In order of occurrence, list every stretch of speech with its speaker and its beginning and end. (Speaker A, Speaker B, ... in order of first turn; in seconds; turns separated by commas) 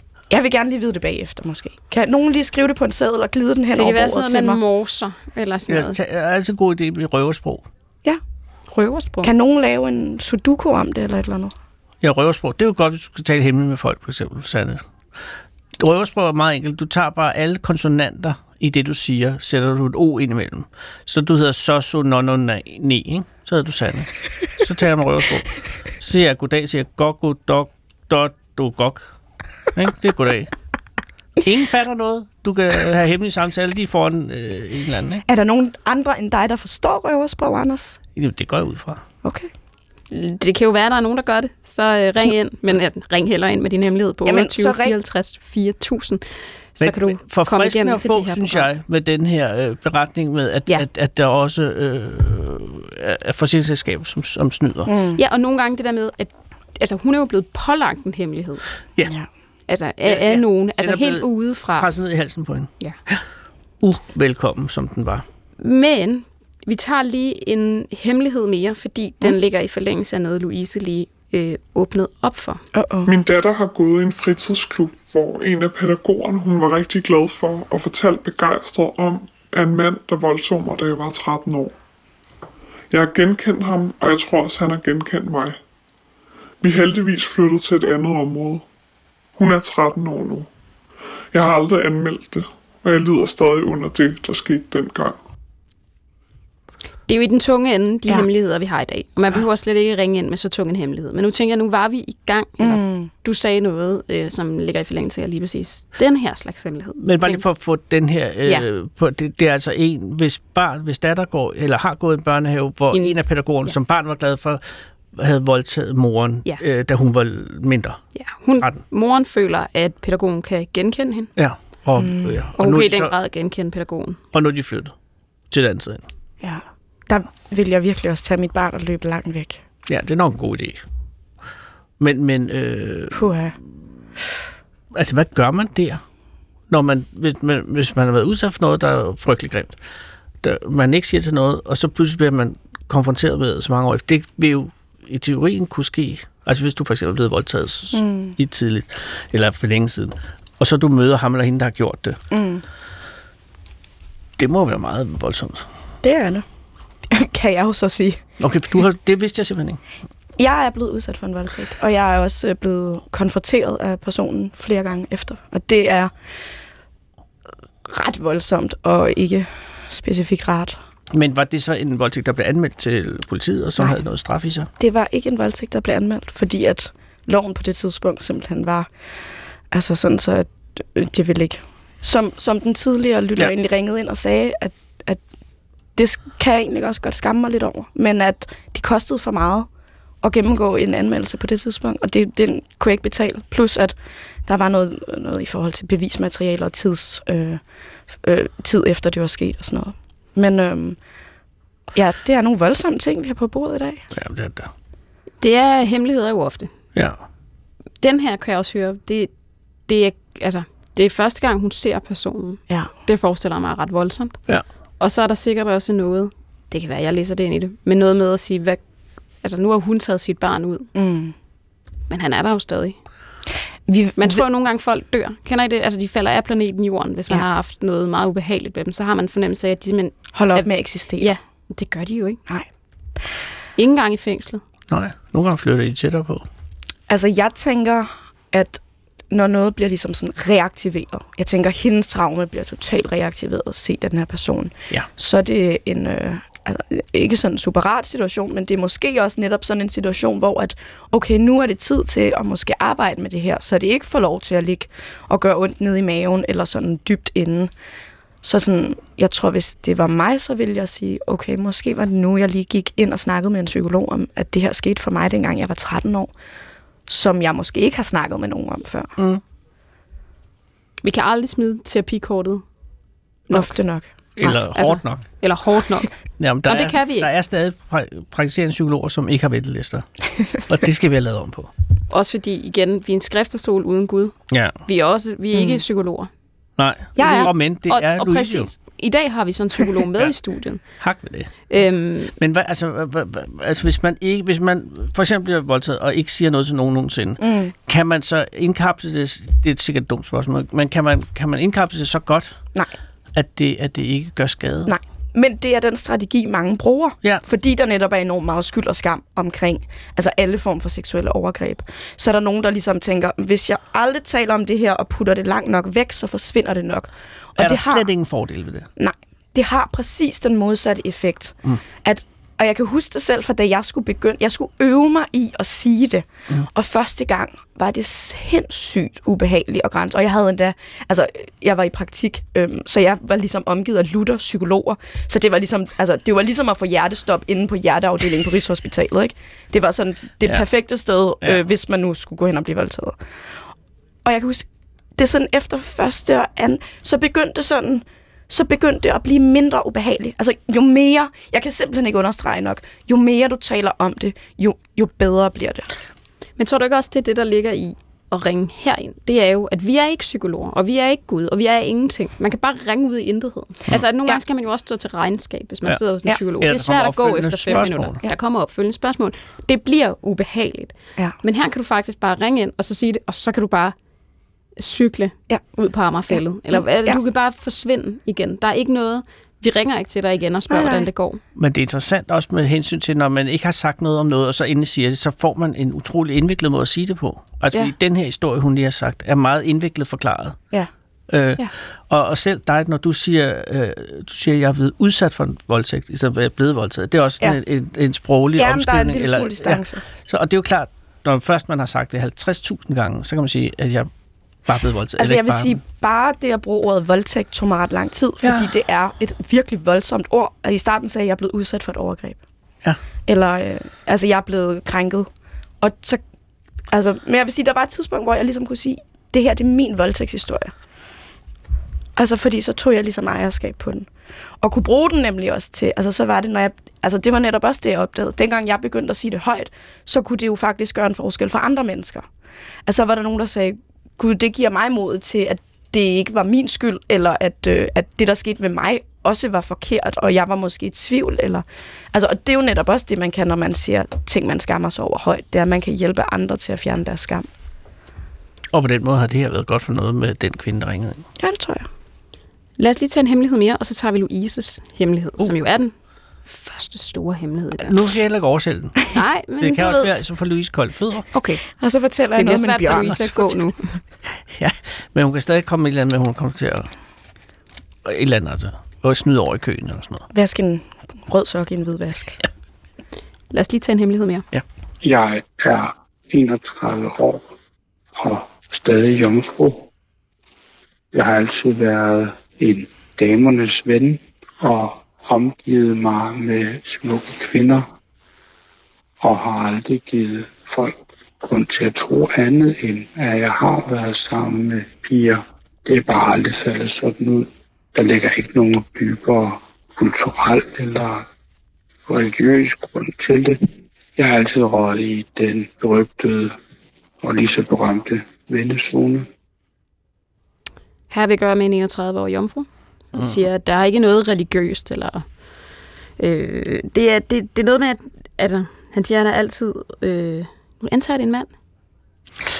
Speaker A: 0.3-4.6, Speaker B: 3.7-6.0, Speaker C: 5.7-7.7, Speaker B: 8.7-9.3, Speaker A: 9.2-11.5, Speaker C: 12.0-14.8, Speaker C: 15.8-29.0, Speaker C: 29.7-30.5, Speaker C: 31.4-35.2, Speaker A: 35.3-38.0, Speaker C: 38.1-39.0, Speaker A: 39.2-39.5, Speaker B: 40.1-46.2, Speaker A: 44.2-45.0, Speaker B: 46.7-48.7, Speaker C: 46.8-54.9, Speaker A: 54.9-55.2, Speaker B: 55.2-58.6, Speaker B: 59.7-61.9, Speaker C: 60.0-63.2, Speaker C: 63.8-65.2, Speaker B: 65.6-72.6, Speaker A: 72.7-73.1, Speaker D: 73.0-81.7, Speaker D: 82.9-85.6, Speaker D: 86.6-88.6, Speaker D: 89.4-90.5, Speaker D: 91.3-95.2, Speaker B: 97.1-107.4, Speaker A: 102.6-103.1, Speaker C: 107.0-114.6, Speaker B: 112.9-113.7, Speaker C: 115.2-118.0, Speaker B: 118.2-121.3, Speaker C: 121.4-123.1, Speaker A: 122.0-122.4, Speaker B: 122.6-124.2, Speaker C: 124.3-124.9, Speaker C: 125.5-126.0, Speaker A: 126.4-129.6, Speaker C: 129.9-130.8, Speaker C: 132.0-133.3, Speaker A: 133.1-133.5, Speaker C: 134.9-136.0, Speaker C: 136.7-139.7, Speaker C: 140.4-152.2, Speaker A: 147.9-148.3, Speaker A: 152.3-152.6, Speaker C: 154.4-155.6, Speaker A: 156.0-156.4, Speaker A: 157.1-158.2, Speaker C: 158.4-159.8, Speaker A: 160.4-166.1, Speaker A: 167.8-170.8, Speaker C: 171.1-174.7, Speaker A: 174.8-178.9, Speaker A: 179.7-185.2, Speaker A: 185.9-189.7, Speaker A: 190.2-197.6, Speaker A: 198.2-201.0, Speaker A: 201.9-204.0, Speaker C: 204.1-204.7, Speaker B: 205.4-206.7, Speaker B: 208.0-209.3, Speaker B: 209.9-214.4, Speaker B: 215.0-218.8, Speaker B: 219.4-220.9, Speaker A: 220.9-221.3, Speaker B: 222.1-223.0, Speaker A: 223.9-224.4, Speaker B: 224.2-232.4, Speaker A: 230.3-231.3, Speaker B: 233.8-234.6, Speaker C: 234.9-236.4, Speaker A: 237.1-257.7, Speaker A: 258.4-266.3, Speaker A: 267.1-269.1, Speaker B: 271.0-272.6, Speaker A: 273.5-274.1, Speaker C: 274.4-275.2, Speaker B: 274.5-276.1, Speaker C: 276.4-281.7, Speaker B: 276.6-277.3, Speaker B: 282.1-284.3, Speaker C: 284.5-284.8, Speaker B: 284.9-286.3, Speaker A: 285.5-285.8, Speaker C: 286.8-288.7, Speaker A: 287.1-287.5, Speaker B: 287.2-290.8, Speaker C: 291.0-291.5, Speaker B: 291.7-292.3, Speaker C: 292.4-302.6, Speaker A: 297.4-297.7, Speaker C: 303.3-304.9, Speaker A: 304.9-318.1, Speaker C: 317.6-318.9, Speaker A: 319.0-343.2, Speaker A: 344.2-355.9, Speaker B: 356.6-373.9, Speaker C: 366.6-368.2, Speaker B: 374.8-381.4, Speaker A: 376.3-377.2, Speaker A: 380.7-381.1, Speaker C: 381.6-390.6, Speaker C: 391.3-404.1, Speaker A: 398.6-400.0, Speaker C: 404.7-405.8, Speaker A: 405.2-412.4, Speaker C: 408.4-408.7, Speaker A: 413.3-415.3, Speaker A: 415.8-416.2, Speaker A: 416.9-420.7, Speaker A: 422.1-424.1, Speaker A: 424.6-432.2, Speaker A: 432.9-447.5, Speaker C: 448.7-451.2, Speaker A: 451.4-451.9, Speaker B: 452.8-455.9, Speaker B: 456.4-458.0, Speaker C: 457.8-461.3, Speaker B: 459.1-460.1, Speaker B: 461.3-461.6, Speaker A: 461.7-463.4, Speaker B: 462.4-463.9, Speaker C: 464.5-466.9, Speaker C: 468.0-470.2, Speaker A: 470.3-472.4, Speaker B: 473.5-474.4, Speaker E: 475.0-477.4, Speaker E: 478.1-479.9, Speaker E: 481.1-487.9, Speaker E: 489.2-501.3, Speaker E: 502.1-506.6, Speaker E: 507.2-509.3, Speaker B: 511.1-515.2, Speaker C: 513.1-513.4, Speaker B: 516.2-521.5